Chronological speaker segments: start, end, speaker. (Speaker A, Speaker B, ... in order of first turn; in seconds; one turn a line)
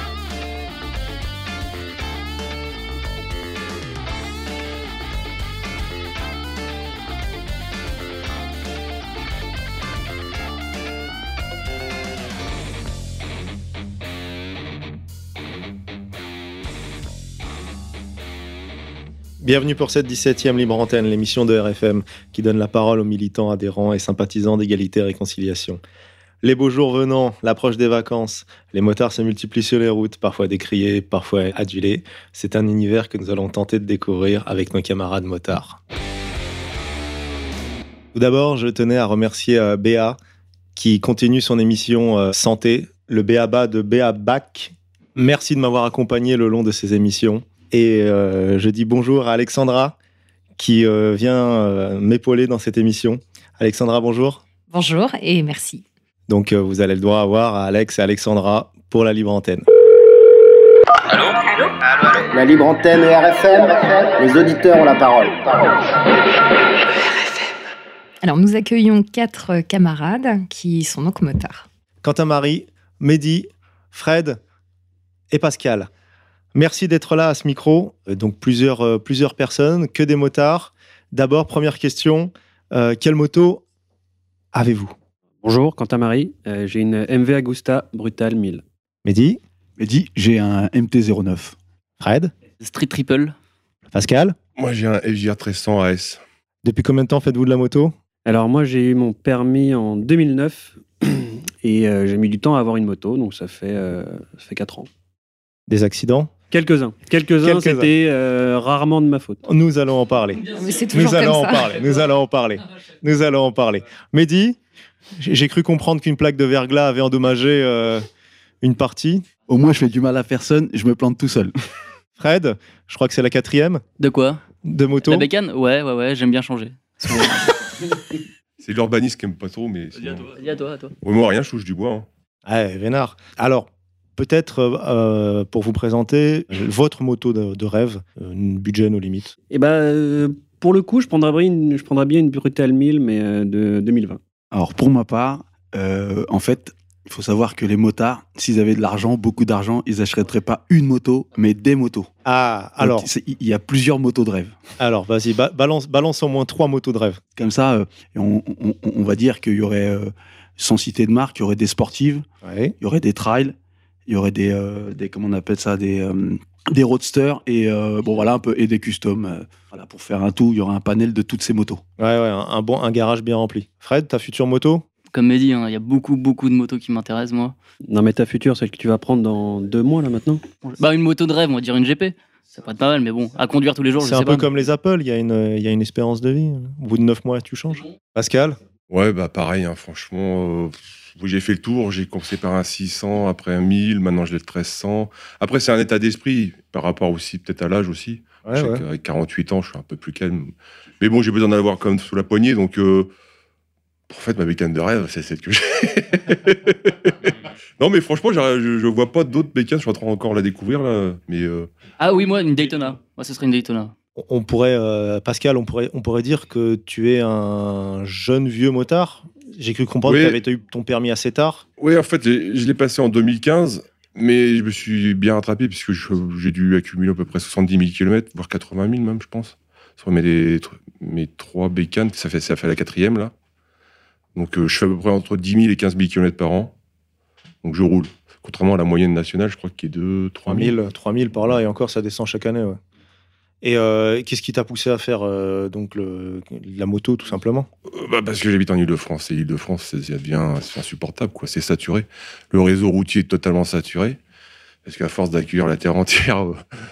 Speaker A: 19.4-25.8
Speaker A: 26.4-35.8
Speaker A: 38.1-40.2
Speaker A: 40.7-50.0
Speaker A: 50.6-54.4
Speaker B: 54.7-55.8
Speaker A: 56.3-59.6
Speaker C: 61.1-65.9
Speaker C: 66.8-67.7
Speaker B: 68.2-71.7
Speaker A: 72.0-74.4
Speaker A: 75.3-75.9
Speaker A: 76.5-83.6
Speaker A: 84.5-84.9
Speaker D: 85.4-88.6
Speaker A: 89.0-89.4
Speaker E: 89.8-91.5
Speaker A: 92.0-92.3
Speaker F: 92.6-93.3
Speaker A: 93.9-94.3
Speaker G: 94.5-96.2
Speaker A: 96.6-97.9
Speaker D: 98.2-104.9
Speaker A: 105.7-106.3
Speaker D: 106.5-109.4
Speaker A: 107.4-107.9
Speaker A: 109.4-114.6
Speaker B: 110.5-111.7
Speaker A: 115.2-118.0
Speaker A: 118.6-119.2
Speaker E: 119.5-121.5
Speaker A: 122.2-123.8
Speaker F: 124.0-124.4
Speaker A: 124.6-125.3
Speaker F: 125.0-127.7
Speaker G: 128.6-130.3
Speaker F: 130.3-130.9
Speaker G: 131.0-132.1
Speaker A: 132.4-139.3
Speaker D: 139.5-144.2
Speaker E: 144.5-152.1
Speaker A: 152.2-153.1
Speaker E: 152.8-154.6
Speaker A: 154.8-157.2
Speaker E: 157.3-162.2
Speaker A: 162.4-162.8
Speaker E: 162.8-163.5
Speaker E: 164.1-171.8
Speaker A: 172.0-174.8
Speaker F: 175.1-177.5
Speaker D: 177.9-180.4
Speaker F: 180.6-184.5
Speaker A: 184.0-188.6
Speaker G: 188.9-203.1
Speaker A: 198.4-198.8
Speaker G: 204.1-211.7
Speaker F: 212.0-213.9
Speaker A: 214.2-221.6
Speaker G: 220.1-220.4
Speaker G: 221.8-233.3
Speaker G: 234.3-236.7
Speaker G: 237.6-240.8
Speaker A: 240.5-242.8
Speaker A: 243.6-247.7
Speaker G: 247.9-254.2
Speaker G: 254.8-256.6